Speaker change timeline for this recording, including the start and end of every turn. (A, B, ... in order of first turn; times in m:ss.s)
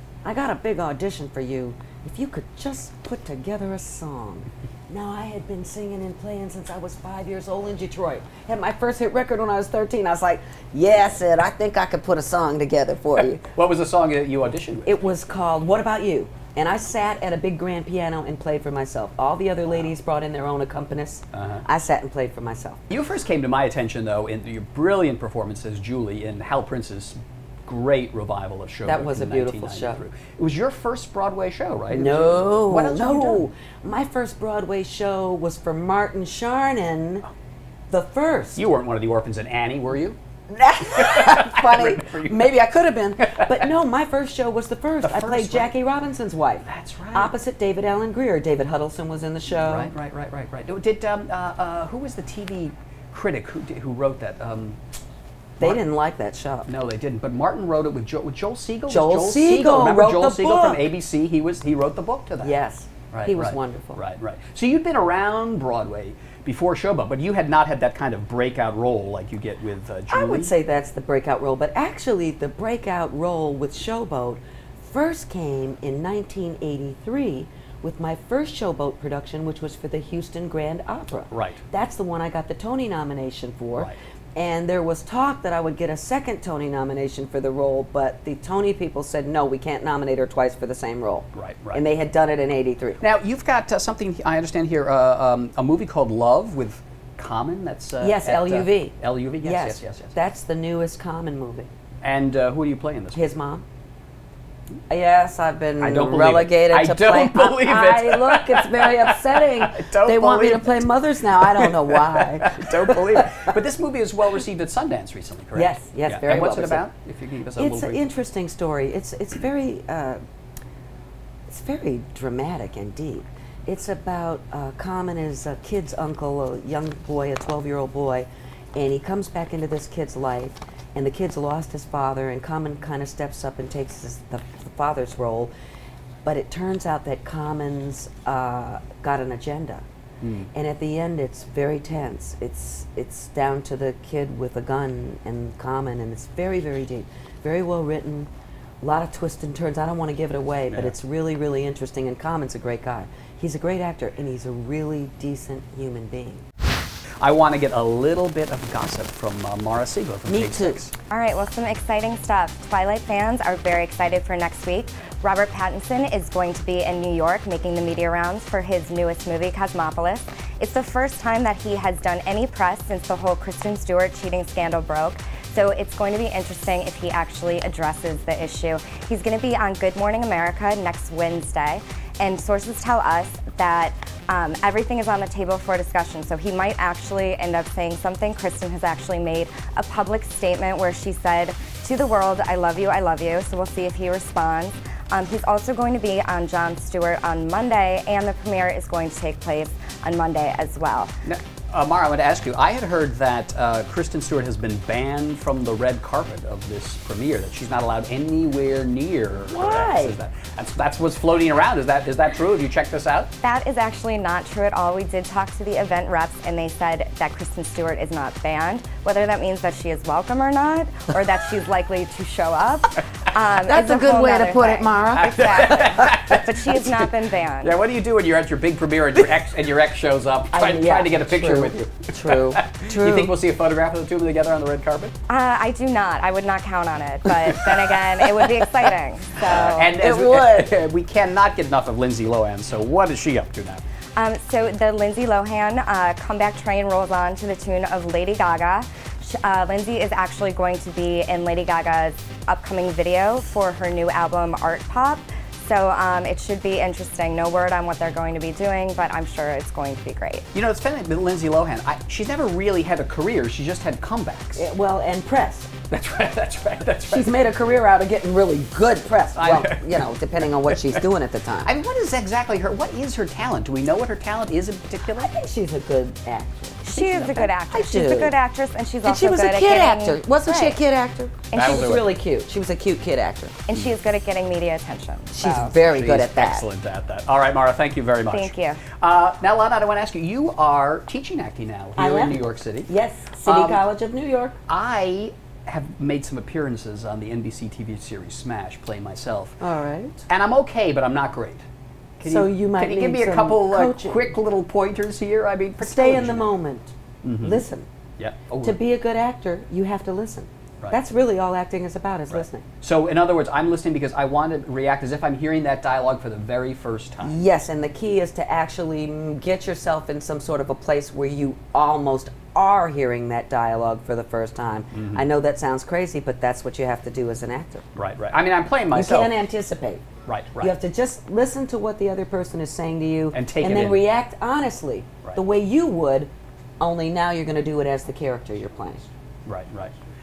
0:00.2-0:13.5 A
0:13.3-0:15.0 B
0:14.8-0:22.8 A
0:21.3-0:21.6 B
0:22.9-0:33.5 B
0:28.8-0:30.0 A
0:31.9-0:37.2 A
0:37.9-0:38.6 A
0:38.6-0:40.2 B
0:40.5-0:49.9 A
0:40.9-0:42.5 B
0:43.2-0:43.7 B
0:45.0-0:45.7 B
0:46.6-0:47.3 B
0:49.5-0:54.8 B
0:55.6-0:56.7 A
0:56.7-1:02.6 B
0:58.9-1:00.9 A
1:02.4-1:04.0 A
1:03.1-1:10.5 B
1:10.1-1:33.0 A
1:21.3-1:21.6 B
1:31.3-1:31.8 B
1:33.0-1:40.2 B
1:38.0-1:41.7 A
1:42.0-1:43.2 B
1:43.1-1:43.6 A
1:44.9-1:53.5 A
1:45.8-1:58.0 B
1:55.5-1:56.8 A
1:57.6-2:00.2 A
2:01.5-2:15.5 A
2:16.2-2:19.8 A
2:20.2-2:20.5 B
2:20.5-2:28.3 A
2:28.8-2:36.4 A
2:37.2-2:40.9 B
2:40.3-2:40.8 A
2:41.1-3:21.1 C
3:21.2-3:33.3 B
3:29.5-3:30.2 A
3:33.4-3:47.7 C
3:43.6-3:46.1 A
3:45.1-3:55.1 B
3:50.5-3:53.3 A
3:55.3-4:00.0 C
3:57.3-4:03.8 B
3:59.4-4:00.7 A
4:04.2-4:20.4 C
4:20.5-4:24.6 B
4:24.6-4:25.7 A
4:25.9-4:27.3 B
4:27.1-4:31.7 A
4:29.4-4:30.1 B
4:30.7-4:31.0 B
4:31.6-4:35.3 B
4:35.1-4:38.3 A
4:36.8-4:40.8 C
4:39.0-4:43.6 A
4:41.5-4:42.0 C
4:41.5-4:42.0 B
4:43.7-4:45.7 C
4:45.3-4:46.6 A
4:45.7-4:52.9 B
4:48.3-4:48.8 C
4:52.0-4:54.6 A
4:53.4-4:53.8 B
4:54.7-4:59.6 B
4:59.6-5:00.2 A
5:00.3-5:01.6 B
5:02.2-5:06.5 B
5:02.2-5:04.3 A
5:05.8-5:07.9 A
5:07.2-5:07.6 B
5:08.2-5:08.8 B
5:08.6-5:12.6 A
5:12.3-5:17.4 B
5:17.2-5:27.9 A
5:24.9-5:25.2 B
5:28.0-5:29.4 B
5:28.9-5:30.0 A
5:30.2-5:30.7 B
5:30.6-5:39.1 A
5:33.3-5:34.1 B
5:39.5-5:39.9 B